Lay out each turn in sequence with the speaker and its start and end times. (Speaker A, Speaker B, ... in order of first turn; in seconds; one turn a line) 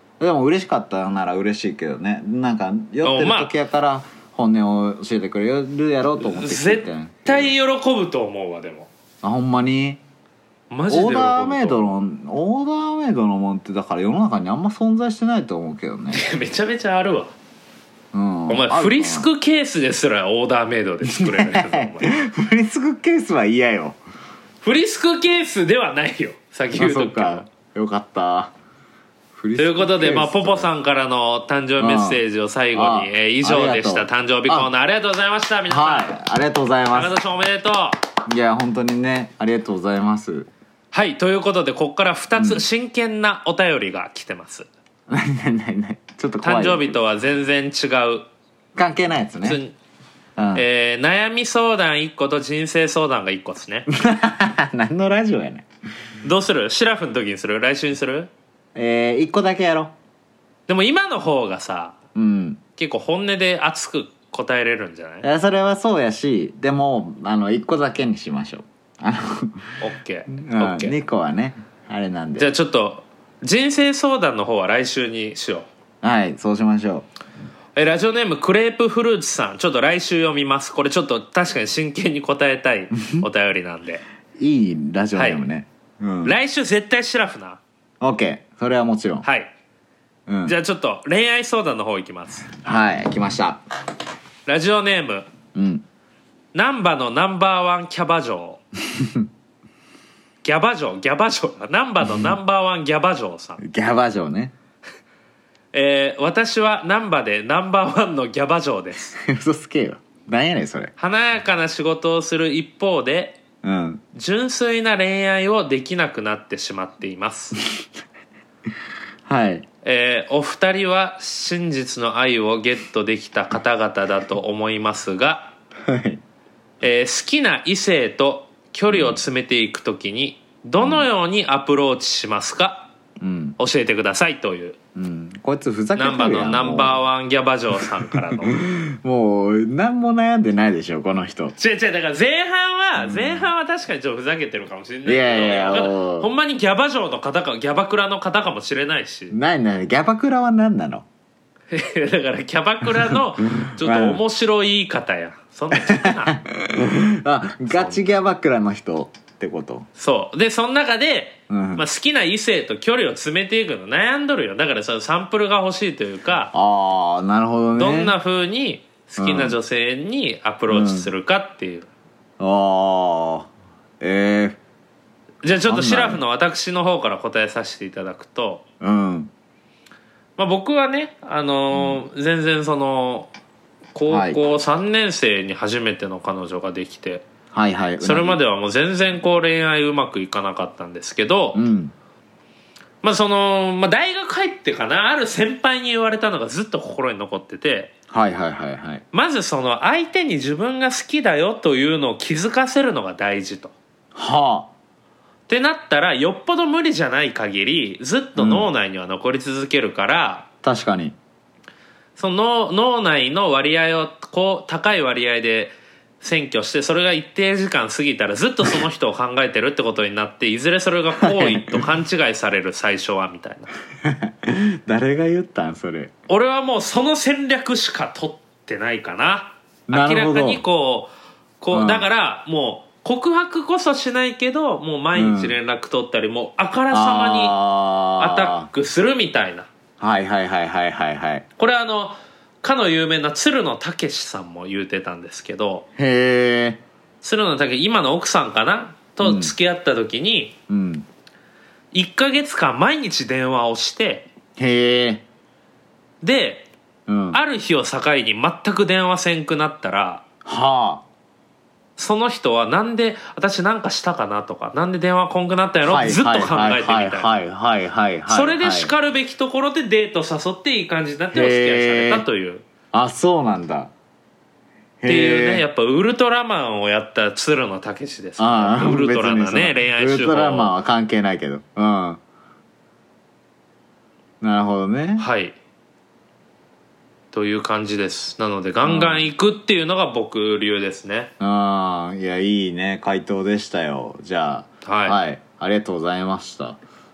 Speaker A: 0.2-7.5
Speaker B: 3.0-3.5
Speaker B: 6.2-8.9
Speaker A: 9.2-10.0
Speaker B: 10.7-11.8
Speaker A: 10.9-16.2
Speaker B: 16.1-17.3
Speaker A: 18.1-19.3
Speaker B: 18.5-22.1
Speaker A: 21.0-24.0
Speaker B: 24.6-27.4
Speaker A: 26.7-28.5
Speaker A: 29.3-30.7
Speaker B: 29.6-36.1
Speaker A: 31.8-32.2
Speaker A: 32.7-34.7
Speaker A: 35.7-37.1
Speaker B: 36.9-38.0
Speaker A: 38.3-40.5
Speaker B: 40.9-44.7
Speaker A: 42.4-42.6
Speaker A: 45.1-47.0
Speaker B: 46.4-48.2
Speaker A: 48.7-49.6
Speaker B: 49.4-49.8
Speaker A: 50.4-50.6
Speaker B: 50.5-53.9
Speaker A: 53.9-55.6
Speaker B: 56.2-58.3
Speaker A: 58.7-59.9
Speaker B: 60.7-62.0
Speaker A: 62.1-62.6
Speaker B: 62.8-65.2
Speaker A: 65.2-69.6
Speaker B: 69.8-70.9
Speaker A: 70.3-72.5
Speaker B: 72.4-75.7
Speaker A: 76.0-77.1
Speaker B: 77.8-84.0
Speaker A: 83.0-83.3
Speaker A: 84.4-86.4
Speaker B: 85.1-85.4
Speaker B: 86.2-87.6
Speaker A: 88.0-89.2
Speaker B: 89.2-89.5
Speaker A: 90.3-90.5
Speaker B: 90.4-92.5
Speaker A: 92.5-93.6
Speaker B: 94.5-95.2
Speaker A: 95.5-95.8
Speaker B: 96.5-98.6
Speaker A: 98.9-99.3
Speaker B: 100.4-103.6
Speaker A: 102.1-102.3
Speaker A: 103.6-104.5
Speaker B: 105.7-109.2
Speaker A: 109.2-110.9
Speaker B: 111.0-113.4
Speaker A: 113.6-114.0
Speaker B: 114.1-117.6
Speaker A: 119.2-119.7
Speaker B: 119.8-125.5
Speaker A: 125.9-126.2
Speaker B: 126.8-132.9
Speaker A: 128.9-129.2
Speaker A: 130.8-131.1
Speaker A: 133.2-133.6
Speaker B: 133.6-134.8
Speaker A: 134.9-137.0
Speaker B: 135.9-138.6
Speaker A: 137.8-141.6
Speaker B: 141.6-149.4
Speaker A: 143.0-143.5
Speaker A: 145.0-146.3
Speaker A: 149.3-151.1
Speaker B: 151.7-156.4
Speaker A: 152.9-154.2
Speaker A: 155.7-159.9
Speaker B: 157.7-158.0
Speaker B: 160.0-166.5
Speaker A: 161.5-161.8
Speaker A: 166.5-168.1
Speaker B: 167.8-171.9
Speaker A: 169.2-169.6
Speaker A: 170.7-171.1
Speaker A: 172.4-174.6
Speaker B: 175.4-178.6
Speaker A: 175.6-176.2
Speaker A: 178.8-179.3
Speaker B: 180.4-183.3
Speaker A: 181.7-182.0
Speaker B: 183.9-187.2
Speaker A: 184.1-184.4
Speaker A: 187.5-188.4
Speaker B: 188.0-191.6
Speaker A: 191.5-191.9
Speaker B: 193.0-197.9
Speaker A: 198.1-199.0
Speaker B: 199.1-203.7
Speaker A: 204.1-204.7
Speaker B: 205.5-210.4
Speaker A: 208.4-208.7
Speaker A: 210.6-211.2
Speaker B: 212.2-223.7
Speaker A: 221.1-221.8
Speaker A: 224.0-226.1
Speaker B: 226.3-237.5
Speaker A: 229.9-230.6
Speaker A: 231.7-232.1
Speaker A: 235.1-235.6
Speaker A: 236.9-238.7
Speaker B: 238.2-239.7
Speaker A: 240.0-241.4
Speaker B: 241.6-245.9
Speaker A: 246.0-246.8
Speaker B: 247.2-250.5
Speaker A: 249.2-249.5
Speaker A: 250.7-251.1
Speaker B: 251.9-254.3
Speaker A: 254.6-255.2
Speaker B: 256.2-256.7
Speaker A: 257.1-257.4
Speaker B: 257.3-260.2
Speaker A: 260.4-261.0
Speaker B: 262.0-267.3
Speaker A: 265.8-268.9
Speaker B: 268.3-272.6
Speaker A: 271.3-272.2
Speaker A: 272.9-273.9
Speaker A: 275.0-275.6
Speaker B: 275.1-280.8
Speaker A: 278.4-282.2
Speaker A: 284.4-285.2
Speaker B: 285.2-285.6
Speaker B: 287.3-291.3
Speaker A: 288.8-289.2
Speaker A: 291.4-296.8
Speaker B: 294.8-295.2